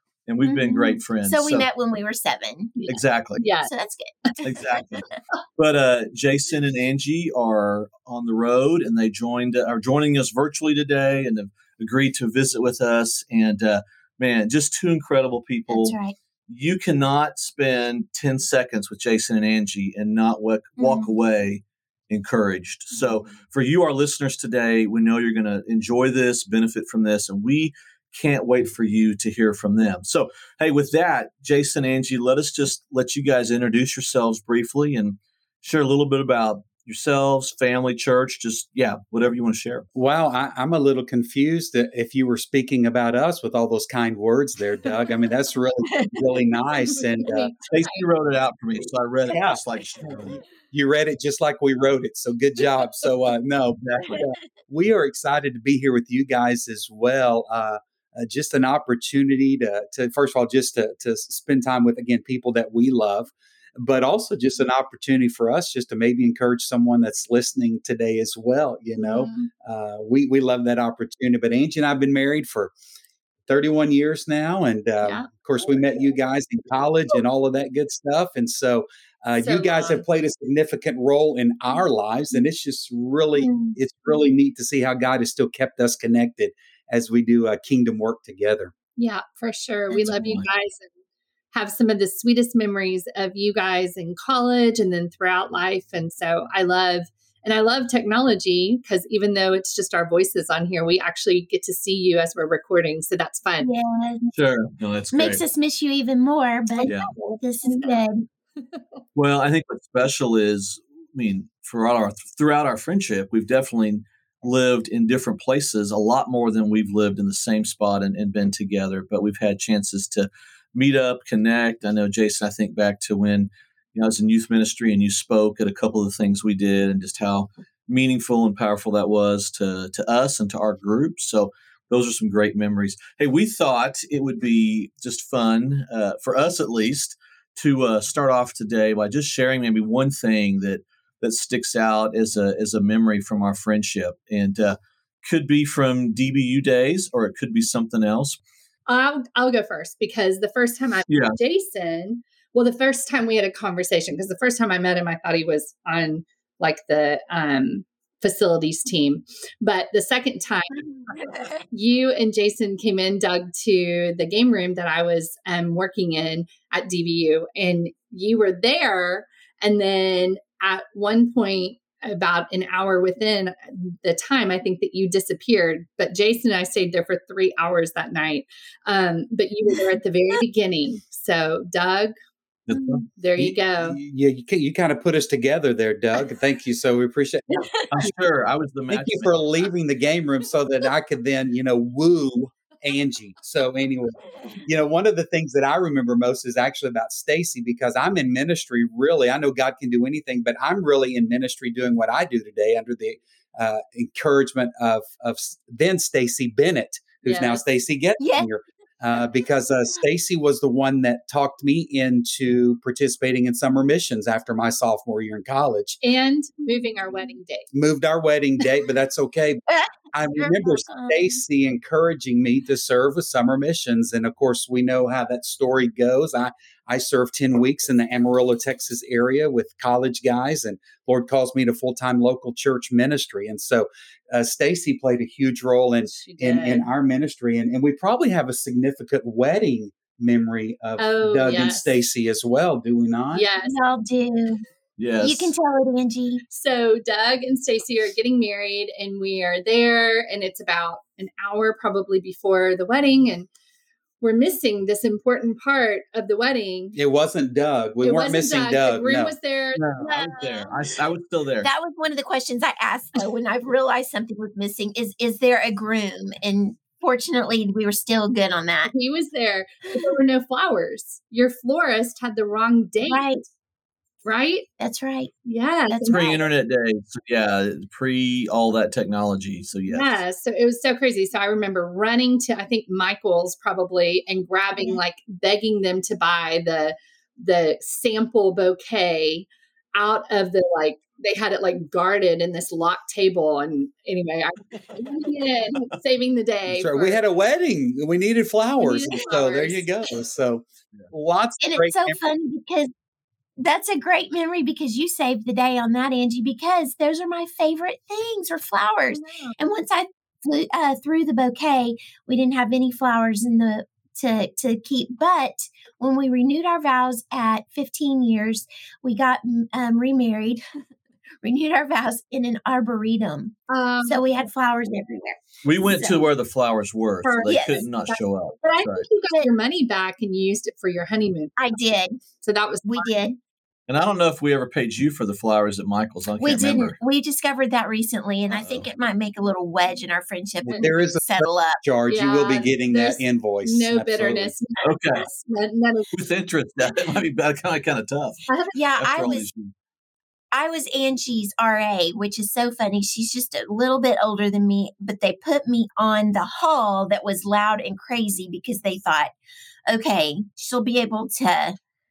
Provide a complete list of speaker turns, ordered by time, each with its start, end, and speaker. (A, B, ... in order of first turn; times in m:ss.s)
0:00.3-0:01.7 A
0:00.4-0:02.8 B
0:02.8-0:03.7 C
0:02.9-0:03.4 A
0:03.6-0:04.8 B
0:04.4-0:16.0 A
0:15.7-0:16.2 B
0:16.5-0:39.9 A
0:20.8-0:21.1 B
0:40.0-0:47.5 D
0:46.8-0:48.1 C
0:47.7-0:50.4 A
0:49.3-0:49.6 D
0:50.7-1:12.7 D
0:53.8-0:54.2 A
1:09.0-1:09.5 C
1:13.5-1:28.7 D
1:15.0-1:15.3 C
1:19.4-1:20.0 C
1:23.4-1:23.8 B
1:29.0-1:30.9 C
1:30.0-1:30.5 A
1:31.5-1:43.7 C
1:43.6-1:44.3 B
1:44.3-1:45.4 A
1:45.1-1:48.3 B
1:46.8-1:48.0 C
1:46.9-1:47.1 A
1:48.6-1:48.8 C
1:49.2-2:28.4 A
2:28.9-3:02.1 C
2:31.1-2:31.4 A
3:02.7-3:03.0 A
3:02.7-3:03.0 B
3:03.2-3:04.0 C
3:03.4-3:07.8 D
3:07.9-3:09.4 A
3:08.9-3:36.0 D
3:27.2-3:27.6 C
3:28.2-3:28.5 B
3:36.0-3:37.7 C
3:37.7-4:03.5 D
3:39.7-3:41.4 B
3:56.1-3:56.9 C
4:01.0-4:01.9 C
4:03.3-4:03.8 C
4:03.6-4:04.6 B
4:05.0-4:05.5 A
4:05.2-4:06.4 B
4:06.5-4:13.5 C
4:14.2-4:17.0 C
4:17.0-4:19.3 D
4:18.0-4:19.8 C
4:19.8-4:21.7 A
4:20.0-4:20.8 B
4:21.6-4:28.9 B
4:28.9-4:33.3 C
4:33.0-4:33.4 B
4:34.2-4:34.7 C
4:34.8-4:35.3 B
4:35.5-4:36.2 C
4:35.9-4:36.5 B
4:36.1-4:40.2 A
4:39.9-4:57.2 C
4:56.7-5:02.2 D
4:58.8-4:59.9 C
5:01.6-5:02.9 B
5:03.6-5:20.6 B
5:09.1-5:09.6 C
5:21.4-5:26.2 B
5:23.7-5:24.2 C
5:25.6-5:29.1 A
5:27.2-5:29.5 B
5:29.2-5:31.6 C
5:31.6-5:32.2 B
5:32.4-5:33.2 C
5:32.8-5:33.4 B
5:33.9-5:37.0 A
5:36.4-5:41.8 B
5:38.5-5:38.9 A
5:40.6-5:44.5 D
5:40.7-5:40.9 C
5:42.1-5:46.1 C
5:44.8-5:45.3 A
5:46.1-5:48.4 A
5:48.5-5:49.4 C
5:48.7-5:49.4 B
5:49.0-5:49.7 A
5:50.5-5:59.3 B
5:59.9-6:01.8 B